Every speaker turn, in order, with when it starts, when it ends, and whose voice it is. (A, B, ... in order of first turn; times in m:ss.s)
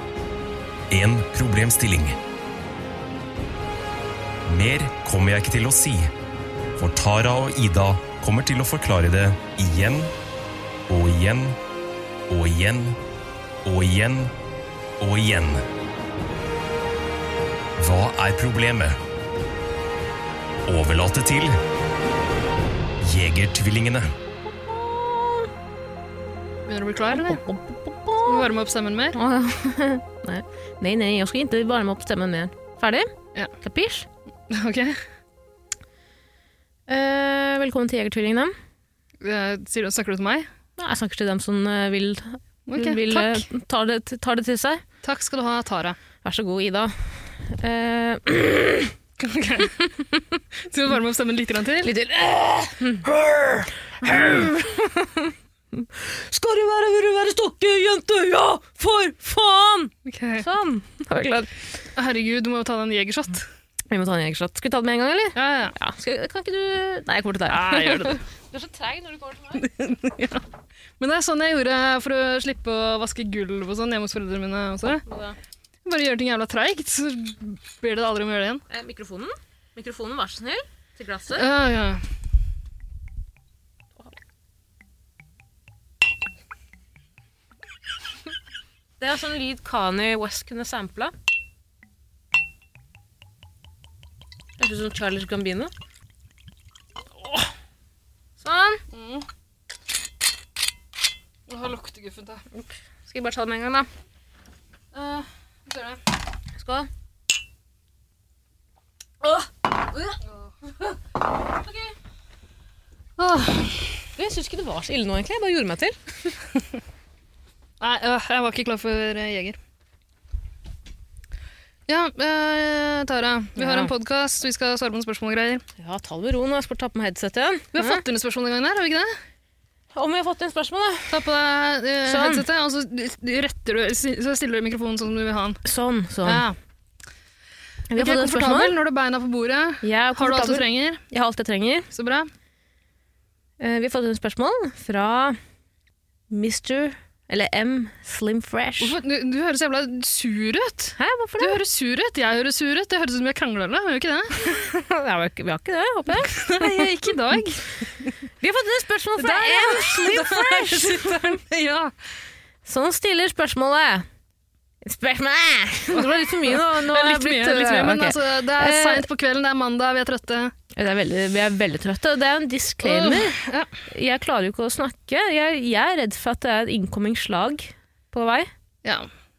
0:00.9-0:02.2 A
0:04.4-0:06.1 A
0:06.8-0:10.1 A
0:10.9-0:11.6 A
0:12.3-0:13.0 A
0:13.6-0:14.3 A
0:15.0-0:15.6 A
0:17.8-0:19.0 A
0:20.6-0:21.6 A
0:23.0-0:24.1 A
0:24.4-0:25.5 B
0:26.7-0:27.4 C
0:27.1-0:28.5 B
0:28.2-0:29.2 C
0:29.1-0:34.1 B
0:34.5-0:35.0 C
0:36.9-0:38.5 B
0:39.2-0:40.5 C
0:40.8-0:44.8 B
0:42.7-0:43.4 C
0:45.0-0:46.0 C
0:46.2-0:48.9 B
0:49.2-0:50.0 C
0:50.7-0:51.9 C
0:51.8-1:01.6 B
0:54.0-0:54.5 C
1:00.0-1:00.4 C
1:02.0-1:03.4 C
1:03.9-1:09.7 B
1:05.4-1:05.7 C
1:07.5-1:08.2 C
1:09.6-1:10.4 C
1:11.0-1:15.0 C
1:15.1-1:15.4 B
1:15.8-1:18.6 C
1:18.7-1:21.4 B
1:21.3-1:22.0 C
1:29.0-1:31.1 B
1:34.6-1:35.7 B
1:38.4-1:38.8 B
1:38.9-1:39.3 C
1:41.5-1:42.4 C
1:42.5-1:43.9 B
1:44.9-1:46.0 C
1:46.6-1:46.9 B
1:53.2-1:54.0 C
1:54.2-1:56.0 B
1:57.8-1:59.6 C
2:01.9-2:05.6 C
2:03.6-2:03.9 B
2:05.8-2:08.0 B
2:07.7-2:09.1 C
2:09.9-2:11.2 B
2:11.1-2:15.6 C
2:12.0-2:12.4 B
2:15.6-2:16.4 B
2:16.2-2:16.6 C
2:17.9-2:18.7 B
2:18.0-2:21.0 C
2:19.8-2:21.9 B
2:21.9-2:22.3 C
2:23.6-2:25.4 B
2:26.3-2:29.0 B
2:28.8-2:34.6 C
2:31.0-2:31.6 B
2:34.4-2:36.9 B
2:36.1-2:38.1 C
2:38.4-2:41.3 B
2:39.2-2:41.9 C
2:42.6-2:44.0 B
2:44.8-2:49.0 B
2:45.9-2:50.5 C
2:50.7-2:58.5 B
2:52.8-2:53.7 C
2:58.8-2:59.1 C